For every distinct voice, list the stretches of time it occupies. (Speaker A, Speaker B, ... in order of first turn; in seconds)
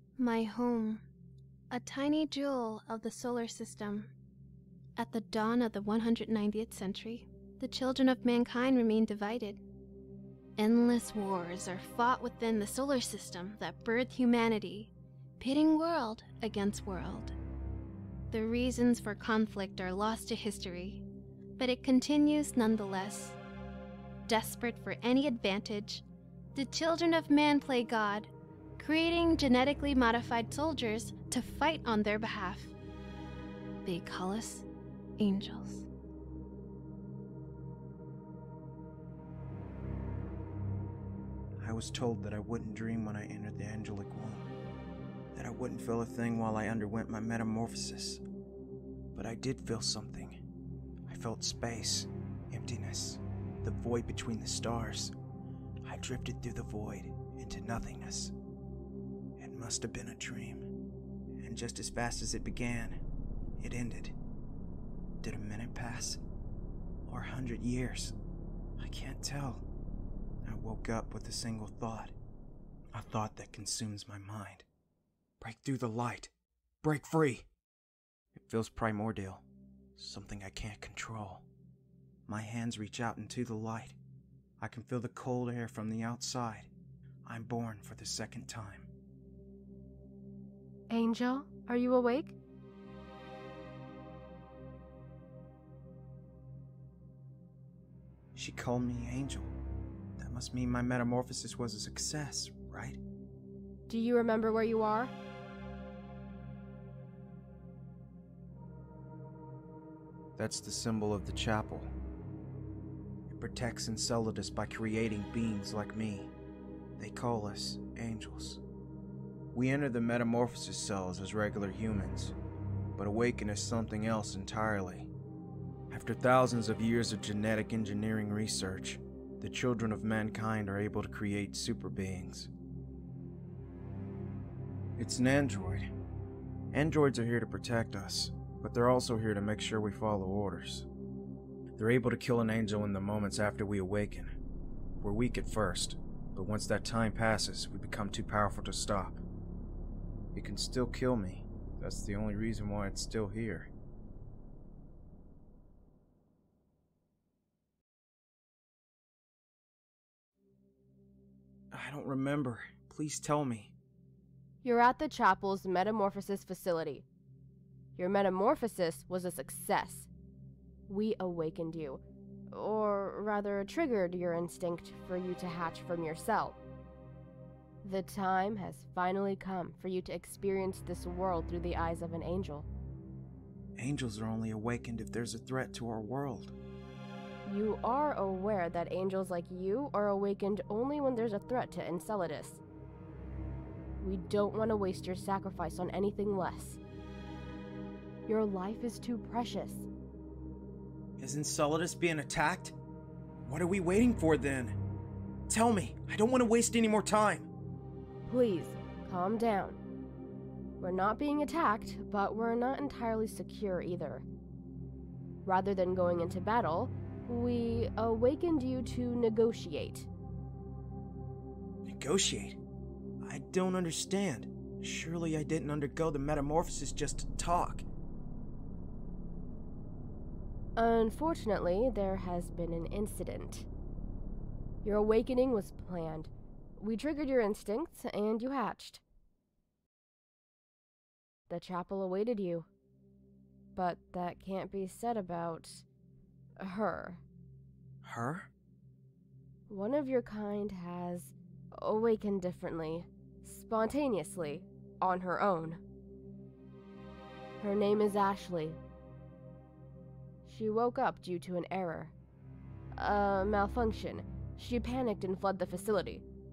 Speaker A: 0.2-1.0, 1.7-4.1, 5.0-9.6, 10.6-17.4, 18.3-21.0, 21.6-23.4, 24.3-26.0, 26.5-32.7, 33.8-34.6, 35.2-35.9
Speaker B: 41.6-44.5, 45.3-48.2, 49.1-50.4, 51.1-55.1, 55.8-58.3, 59.4-60.7, 61.4-63.0, 63.6-64.1, 65.2-66.2, 67.1-68.1, 68.8-69.6, 70.4-72.1, 72.9-74.6, 75.4-76.3, 76.8-77.5, 78.3-79.4, 80.0-81.5, 82.3-84.0, 84.6-86.7, 87.2-88.9, 98.3-99.5, 100.2-103.0, 110.4-111.9, 113.3-116.3, 117.0-118.6, 119.5-122.3, 123.0-125.1, 125.9-132.5, 135.0-135.9, 136.7-140.9, 141.8-144.3, 145.0-149.2, 150.3-153.7, 161.7-163.7, 183.8-186.5, 201.2-202.8, 203.4-204.8, 205.5-207.5, 221.8-222.6, 223.2-227.8, 248.0-248.5
Speaker C: 90.9-92.3, 103.9-105.1, 164.6-167.0, 167.9-170.1, 170.9-176.6, 177.8-182.7, 187.4-192.6, 194.0-196.8, 198.3-199.9, 208.2-209.8, 210.8-214.2, 215.4-220.1, 230.8-233.7, 234.8-239.0, 241.5-242.7, 243.7-245.8, 246.6-247.2, 249.7-255.8, 257.6-258.8, 260.4-262.1, 262.9-266.2